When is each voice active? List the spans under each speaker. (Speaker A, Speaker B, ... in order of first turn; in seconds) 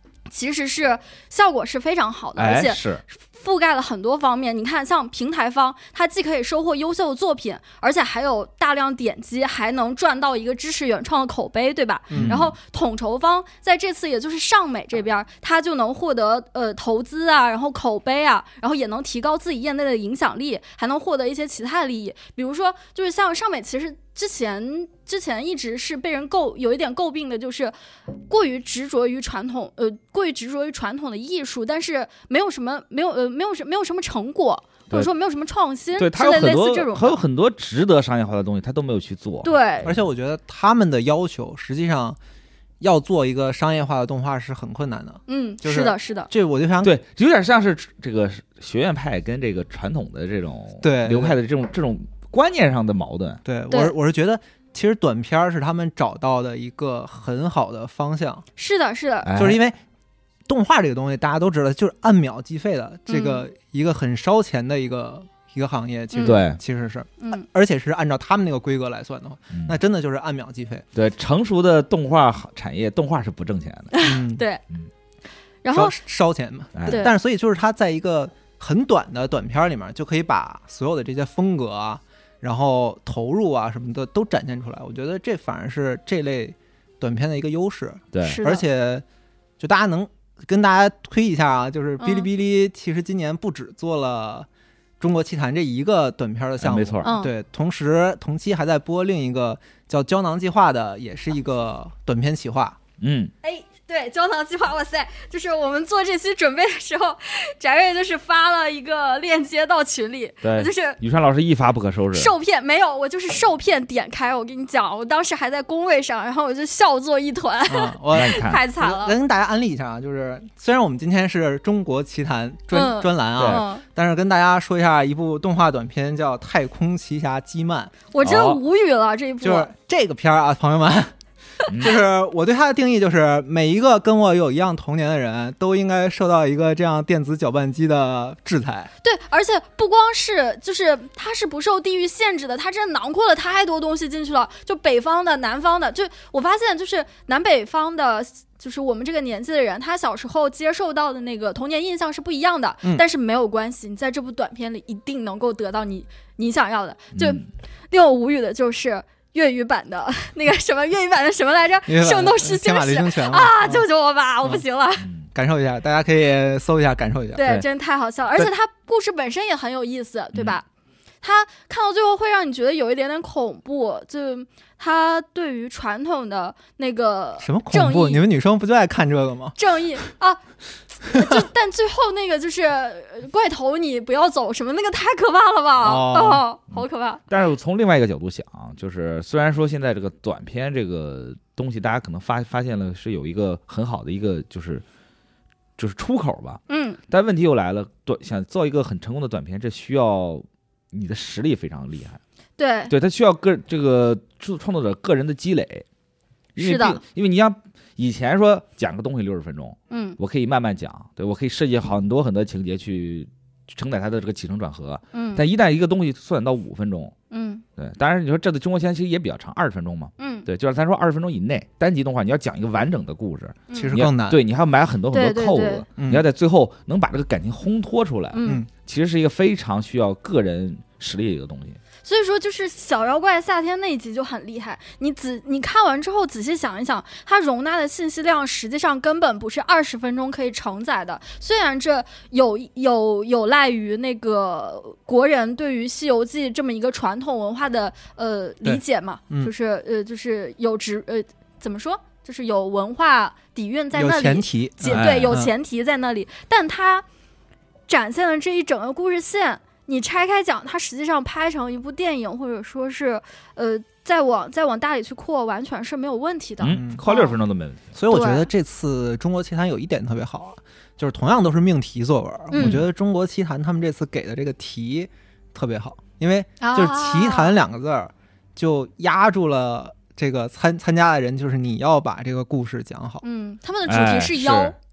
Speaker A: 0.3-27.7, 28.3-37.2, 39.4-39.9, 45.3-46.3, 58.6-59.3, 63.1-63.5, 66.1-66.4, 67.2-67.4, 73.9-74.6, 75.6-76.0, 76.9-77.1, 88.2-88.6, 92.0-92.3, 97.0-97.3, 103.4-111.0, 112.1-119.2, 122.7-123.8, 128.1-129.7, 139.0-165.1, 167.3-170.7, 171.2-178.2, 179.6-180.4, 181.0-187.2, 196.7-197.0, 202.6-202.9, 206.6-207.0, 209.9-210.2, 215.1-215.4, 217.3-217.6, 220.2-220.5, 223.7-223.9, 225.1-225.8, 228.3-228.6, 232.0-257.0, 257.9-267.4, 268.1-268.5, 272.5-272.8, 276.6-277.5, 283.2-284.8
Speaker B: 2.4-3.0, 12.1-12.5, 36.0-40.0, 46.8-53.4, 59.2-59.6, 66.2-66.6, 69.5-69.8, 70.9-73.9, 76.7-77.0, 88.1-88.4, 96.6-97.1, 103.0-103.3, 110.4-112.3, 118.1-118.6, 123.4-123.6, 128.2-128.6, 131.7-132.0, 157.1-157.5, 165.0-165.3, 186.7-194.8, 195.8-202.2, 202.9-205.8, 206.6-217.1, 217.8-231.8, 254.8-255.4, 266.6-267.9, 272.6-272.9, 283.9-284.7
Speaker C: 12.1-12.4, 39.8-42.2, 42.8-46.9, 50.8-51.4, 53.4-58.4, 59.3-59.8, 60.5-70.8, 74.0-74.4, 75.7-89.0, 89.6-94.5, 95.0-102.8, 117.7-128.0, 129.4-131.1, 131.7-138.9, 161.9-163.8, 165.3-167.6, 177.4-179.6, 181.1-181.4, 185.8-186.4, 223.7-224.4, 226.0-226.2, 228.4-228.7, 248.6-249.5, 253.9-255.5, 266.7-267.0, 267.9-283.2